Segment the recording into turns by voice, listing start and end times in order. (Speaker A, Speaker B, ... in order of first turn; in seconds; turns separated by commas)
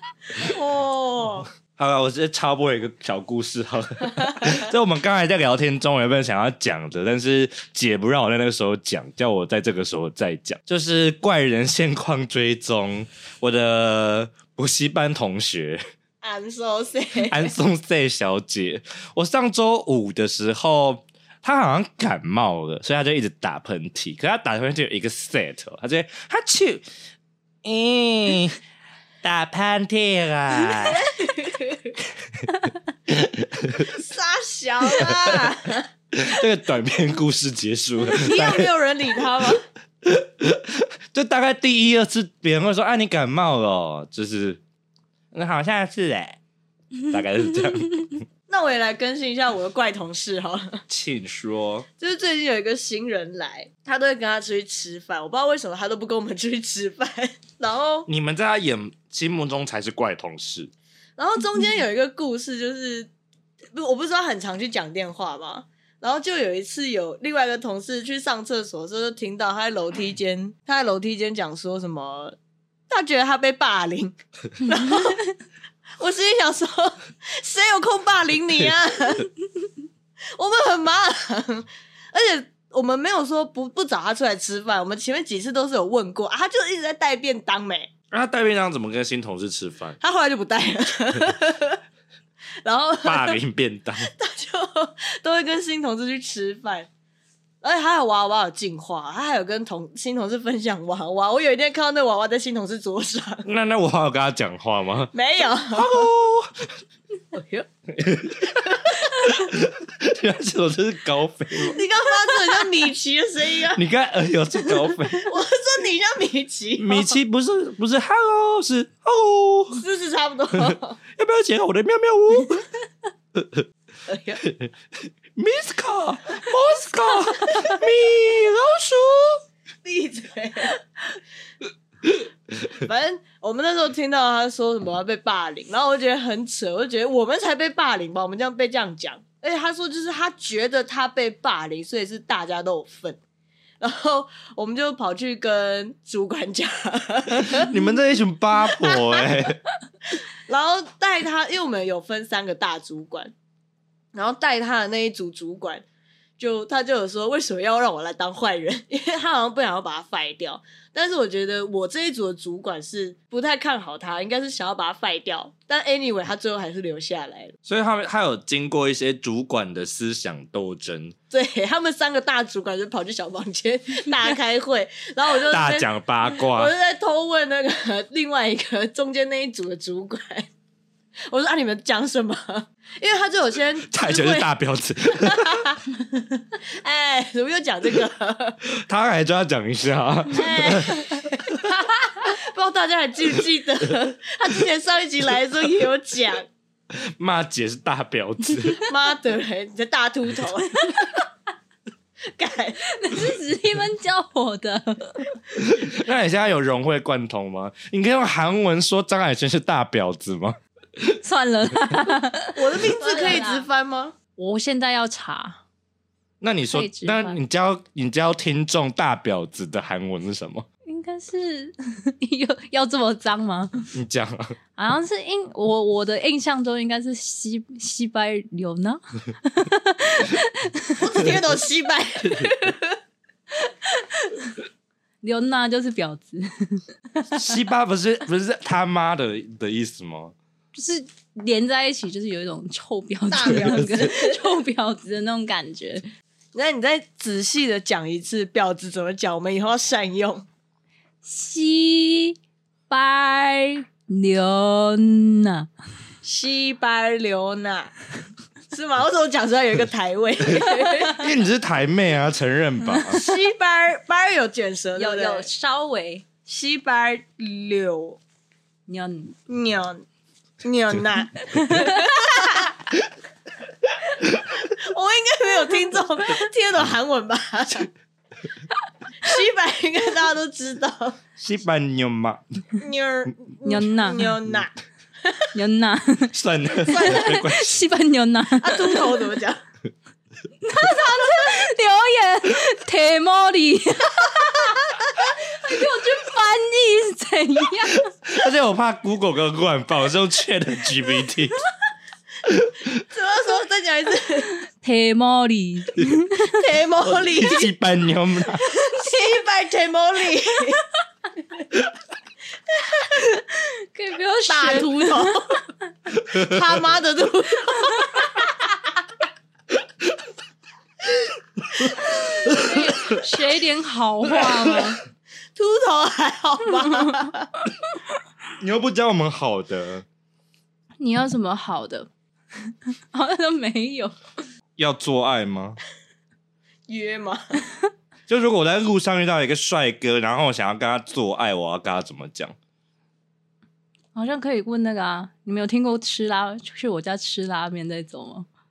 Speaker A: 0.3-1.5, Speaker B: 1.8-15.8, Speaker A: 16.2-17.5, Speaker B: 17.3-26.9, Speaker B: 27.6-28.6, Speaker B: 29.2-31.0, Speaker A: 30.7-32.0, Speaker B: 33.1-33.9, Speaker A: 33.9-35.9, Speaker B: 35.0-35.5, Speaker B: 36.1-38.7, Speaker A: 38.1-39.6, Speaker B: 40.0-44.6, Speaker B: 45.3-46.4, Speaker B: 47.1-48.2, Speaker A: 48.5-50.8, Speaker B: 50.9-51.9, Speaker A: 52.0-58.1, Speaker B: 58.1-60.7, Speaker A: 61.2-63.1, Speaker A: 63.8-72.4, Speaker A: 72.9-75.3, Speaker A: 76.0-79.3, Speaker A: 80.3-87.9, Speaker B: 88.1-90.0, Speaker A: 90.0-91.8, Speaker A: 92.6-93.4, Speaker B: 93.0-94.1, Speaker A: 94.0-96.9, Speaker A: 97.6-103.5, Speaker B: 103.5-106.8, Speaker A: 105.1-106.1, Speaker A: 107.3-107.7, Speaker B: 107.9-111.8, Speaker A: 111.6-113.8, Speaker B: 113.7-115.3, Speaker A: 115.2-117.2, Speaker B: 116.8-119.8, Speaker A: 119.7-121.0, Speaker B: 120.5-122.7, Speaker B: 123.3-123.7, Speaker A: 124.1-124.4, Speaker B: 124.4-124.7, Speaker B: 125.3-129.4, Speaker A: 129.8-130.8, Speaker A: 132.7-143.2, Speaker A: 143.8-147.8, Speaker B: 147.4-149.6, Speaker A: 148.8-149.3, Speaker A: 150.5-153.3, Speaker A: 154.1-155.8, Speaker A: 156.4-167.5, Speaker B: 167.7-171.2, Speaker A: 171.3-180.5, Speaker B: 175.5-176.7, Speaker A: 181.3-184.5, Speaker B: 183.9-185.7, Speaker A: 185.1-188.6, Speaker B: 188.8-191.6, Speaker A: 190.3-196.5, Speaker B: 196.9-198.9, Speaker A: 198.9-201.2, Speaker C: 200.9-201.2, Speaker A: 202.3-202.8, Speaker C: 202.9-205.3, Speaker B: 205.6-210.6, Speaker C: 211.2-213.7, Speaker A: 212.6-214.2, Speaker C: 214.4-215.6, Speaker B: 216.4-220.7, Speaker C: 216.7-217.4, Speaker C: 220.8-223.9, Speaker B: 223.9-224.6, Speaker C: 224.8-231.3, Speaker A: 231.0-233.0, Speaker C: 233.6-234.6, Speaker C: 235.2-237.6, Speaker B: 237.3-240.3, Speaker C: 240.7-246.1, Speaker A: 243.3-244.4, Speaker A: 246.5-250.5, Speaker C: 251.2-252.4, Speaker C: 252.9-255.7, Speaker A: 256.2-257.9, Speaker A: 258.7-261.2, Speaker C: 260.6-261.2, Speaker B: 261.1-263.2, Speaker C: 262.9-263.2, Speaker A: 263.1-265.5, Speaker C: 264.9-266.2, Speaker A: 266.5-268.2, Speaker C: 268.9-269.4, Speaker A: 269.5-270.1, Speaker A: 270.6-272.8, Speaker C: 271.5-272.7, Speaker A: 274.2-277.9, Speaker A: 279.2-281.2, Speaker B: 281.4-282.6, Speaker A: 282.8-284.7, Speaker C: 283.6-284.4, Speaker A: 285.2-285.5, Speaker C: 285.5-289.2, Speaker B: 286.3-287.8, Speaker A: 286.9-287.4, Speaker A: 288.6-289.6, Speaker C: 290.6-298.1, Speaker B: 298.2-301.6, Speaker B: 302.5-302.9, Speaker A: 303.0-304.5, Speaker C: 304.6-306.6, Speaker A: 306.4-307.7, Speaker B: 307.1-308.8, Speaker A: 308.6-310.9, Speaker A: 312.8-313.2, Speaker C: 313.2-315.6, Speaker A: 314.5-315.6, Speaker A: 316.3-318.4, Speaker C: 317.8-318.3, Speaker B: 321.7-323.2, Speaker C: 322.0-325.0, Speaker A: 325.6-327.5, Speaker C: 326.8-327.2, Speaker B: 328.6-330.1, Speaker C: 331.0-332.1, Speaker C: 332.7-334.2, Speaker B: 334.8-335.8, Speaker A: 336.9-337.6, Speaker B: 338.3-342.6, Speaker C: 344.1-348.5